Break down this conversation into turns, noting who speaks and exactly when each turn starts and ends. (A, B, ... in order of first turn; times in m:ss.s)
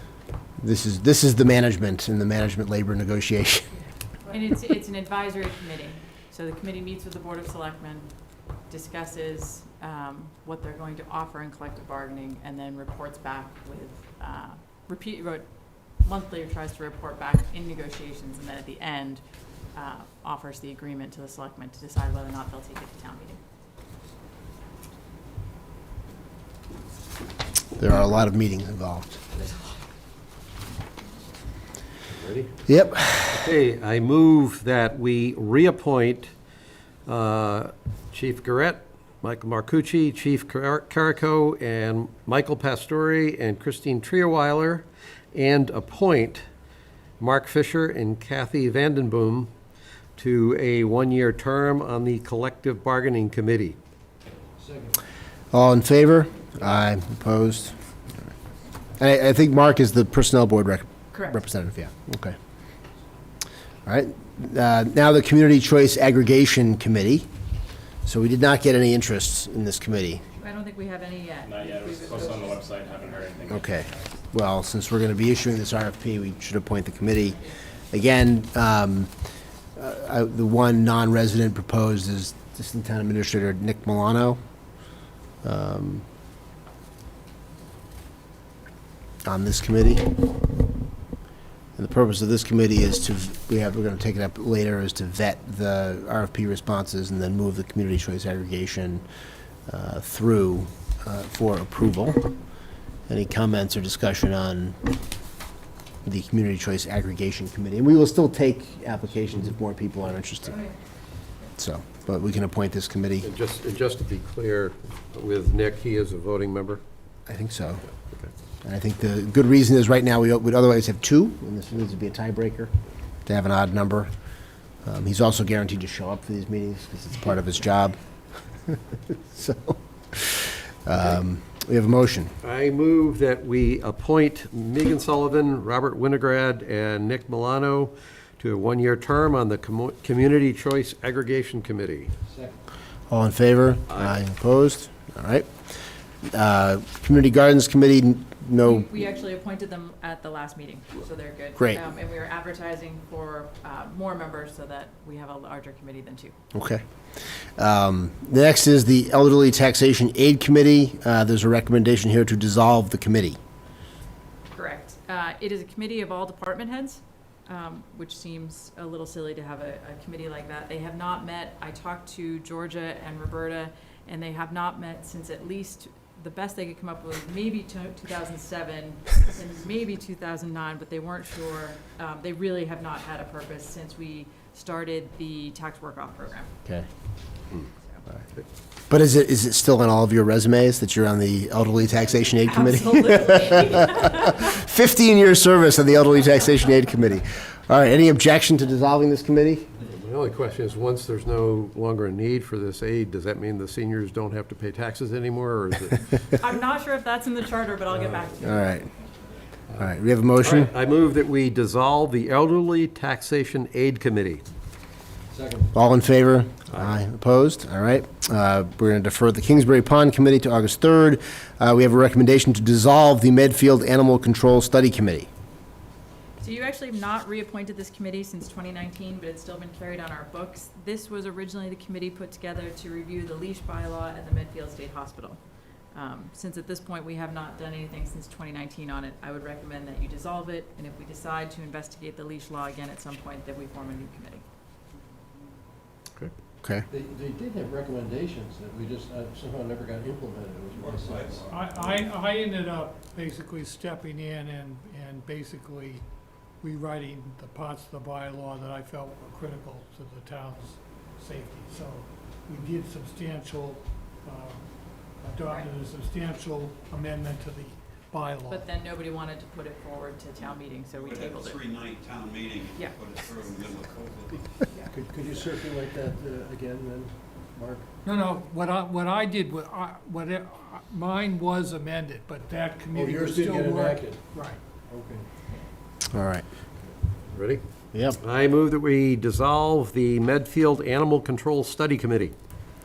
0:00.6-0:03.7 A
0:04.2-0:08.1 B
0:08.7-0:23.4 B
0:27.8-0:29.5 A
0:32.1-0:32.5 C
0:32.7-0:33.5 A
0:33.3-0:36.3 C
0:37.1-0:46.4 C
0:47.2-0:49.5 C
0:50.2-0:53.8 C
0:54.6-0:55.0 D
0:55.5-0:57.8 A
0:59.0-1:02.4 A
1:01.1-1:01.4 B
1:03.9-1:07.3 A
1:08.0-1:10.2 A
1:10.4-1:13.3 B
1:11.5-1:13.6 E
1:13.5-1:19.1 A
1:19.8-1:24.4 A
1:25.4-1:26.0 A
1:29.2-1:30.2 A
1:31.8-1:39.0 A
1:39.7-1:42.3 A
1:43.1-1:44.8 A
1:46.0-1:50.7 A
1:51.6-1:53.3 A
1:53.2-1:56.8 C
1:57.3-1:57.8 A
1:58.6-2:02.7 A
2:03.3-2:04.1 A
2:04.8-2:08.0 A
2:08.7-2:12.3 A
2:12.4-2:22.1 C
2:22.3-2:22.6 D
2:23.1-2:25.5 A
2:26.3-2:28.9 A
2:28.6-2:36.4 B
2:31.6-2:31.8 A
2:36.5-2:36.8 A
2:37.6-2:43.4 A
2:44.6-3:06.5 B
3:08.9-3:19.7 A
3:12.5-3:14.5 B
3:19.8-3:26.2 C
3:26.4-3:28.7 B
3:27.9-3:28.2 C
3:28.4-3:28.9 A
3:29.8-3:30.7 A
3:30.4-3:34.4 C
3:35.3-3:35.7 D
3:35.7-3:45.3 A
3:36.7-3:37.0 C
3:46.4-3:55.4 B
3:55.9-4:04.4 B
4:06.9-4:11.5 D
4:11.0-4:11.4 E
4:11.5-4:16.0 F
4:16.6-4:28.7 F
4:28.5-4:31.7 B
4:30.9-4:34.3 G
4:31.4-4:32.7 E
4:32.7-4:33.5 B
4:34.9-4:37.9 D
4:38.0-4:44.6 F
4:42.9-4:44.2 D
4:44.9-4:45.3 D
4:46.1-4:46.4 A
4:47.3-4:47.6 C
4:47.9-4:48.2 A
4:48.2-4:52.4 C